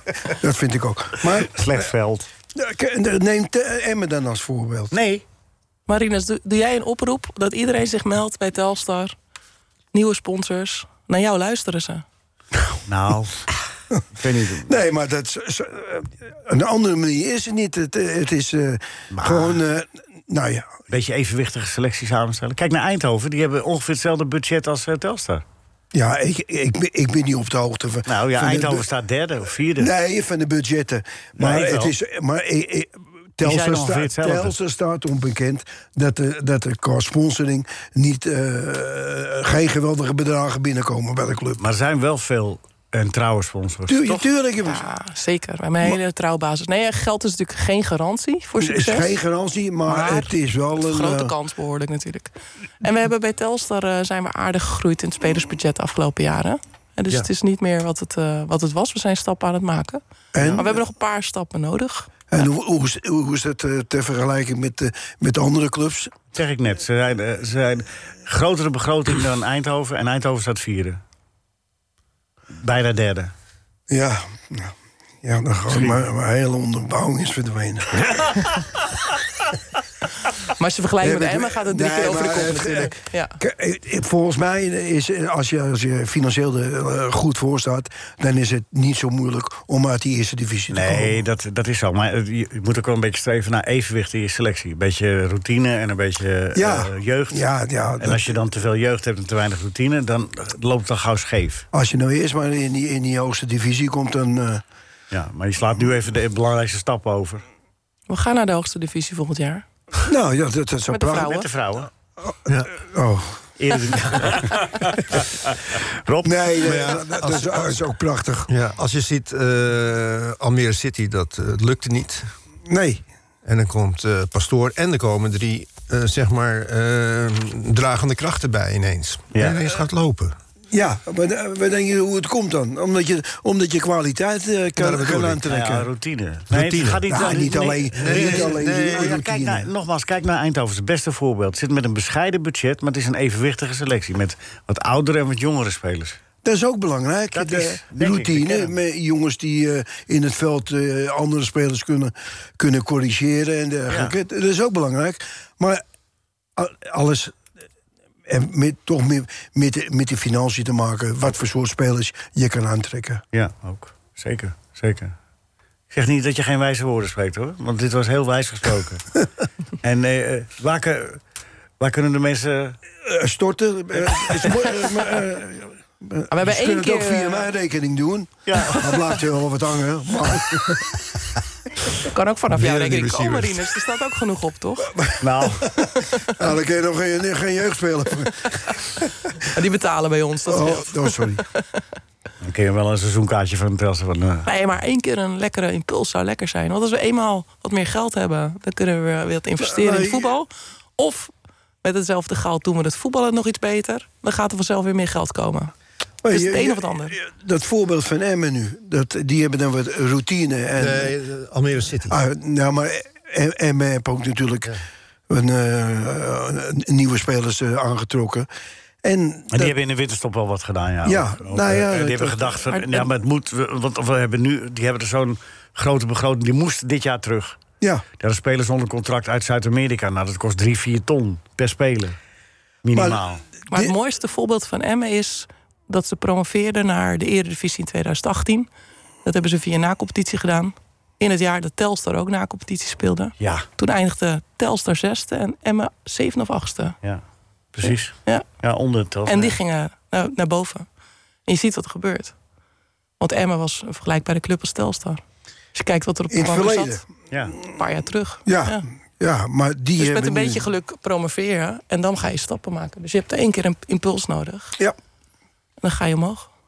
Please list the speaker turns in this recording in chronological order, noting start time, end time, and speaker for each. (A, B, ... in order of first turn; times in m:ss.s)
0:00.2-0:01.6 A
0:01.4-0:02.3 B
0:02.6-0:04.9 A
0:04.9-0:05.2 B
0:05.9-0:09.1 C
0:09.9-0:12.0 C
0:12.9-0:13.5 B
0:14.1-0:14.7 B
0:14.6-0:20.8 A
0:19.1-0:19.6 B
0:20.9-0:25.4 B
0:25.9-0:28.9 A
0:28.1-0:29.9 B
0:29.8-0:41.6 A
0:31.4-0:31.9 B
0:33.4-0:34.5 B
0:41.6-0:44.3 B
0:43.9-0:44.9 A
0:44.6-0:49.1 C
0:48.6-0:51.3 A
0:49.8-1:00.0 C
1:00.3-1:00.8 A
1:00.4-1:00.6 B
1:00.6-1:02.1 C
1:02.3-1:06.1 A
1:06.3-1:11.0 B
1:12.5-1:13.3 B
1:13.9-1:18.0 A
1:15.7-1:16.0 B
1:20.6-1:23.4 C
1:21.0-1:31.2 A
1:30.7-1:37.4 B
1:36.6-1:38.4 A
1:38.0-1:41.6 B
1:41.7-1:44.6 A
1:45.1-1:47.4 B
1:48.1-1:49.6 C
1:50.1-1:51.3 A
1:50.9-1:51.5 C
1:51.2-1:51.9 B
1:52.3-1:53.4 A
1:53.6-1:54.6 B
1:55.7-1:56.4 B
1:56.2-1:58.5 A
1:56.6-1:57.8 D
1:58.5-2:02.3 D
2:02.7-2:03.0 A
2:03.5-2:10.4 D
2:09.3-2:09.6 B
2:10.7-2:15.9 A
2:14.8-2:15.4 D
2:15.5-2:26.2 B
2:16.5-2:17.3 D
2:17.1-2:19.7 A
2:17.9-2:19.2 D
2:26.4-2:35.8 A
2:27.3-2:28.7 B
2:33.9-2:34.1 B
2:36.6-2:37.4 A
2:38.3-2:43.2 A
2:43.3-2:45.1 B
2:45.9-2:49.1 B
2:49.8-2:51.2 B
2:51.8-2:52.8 B
2:53.0-3:00.8 A
2:56.3-2:57.5 C
2:58.5-2:58.8 B
3:02.1-3:05.0 C
3:02.5-3:03.7 D
3:05.0-3:08.8 A
3:05.2-3:05.6 B
3:09.5-3:11.6 C
3:10.5-3:11.4 A
3:12.4-3:14.5 B
3:14.5-3:21.3 C
3:19.6-3:20.3 A
3:21.8-3:25.7 C
3:26.2-3:31.2 A
3:26.3-3:27.2 C
3:30.8-3:32.2 D
3:32.1-3:34.8 A
3:35.3-3:38.5 A
3:39.0-3:39.8 A
3:39.5-3:47.6 B
3:41.0-3:42.6 A
3:42.7-3:43.1 C
3:48.2-3:52.2 B
3:52.8-3:53.4 B
3:52.9-3:53.9 A
3:53.7-3:58.7 C
3:59.2-4:07.0 C
4:03.4-4:03.6 B
4:07.7-4:09.6 B
4:09.3-4:10.9 C
4:11.5-4:12.3 C
4:13.2-4:15.2 C
4:15.8-4:17.0 C
4:16.3-4:17.0 A
4:17.7-4:18.8 C
4:18.5-4:20.7 A
4:20.0-4:24.8 C
4:25.8-4:26.5 C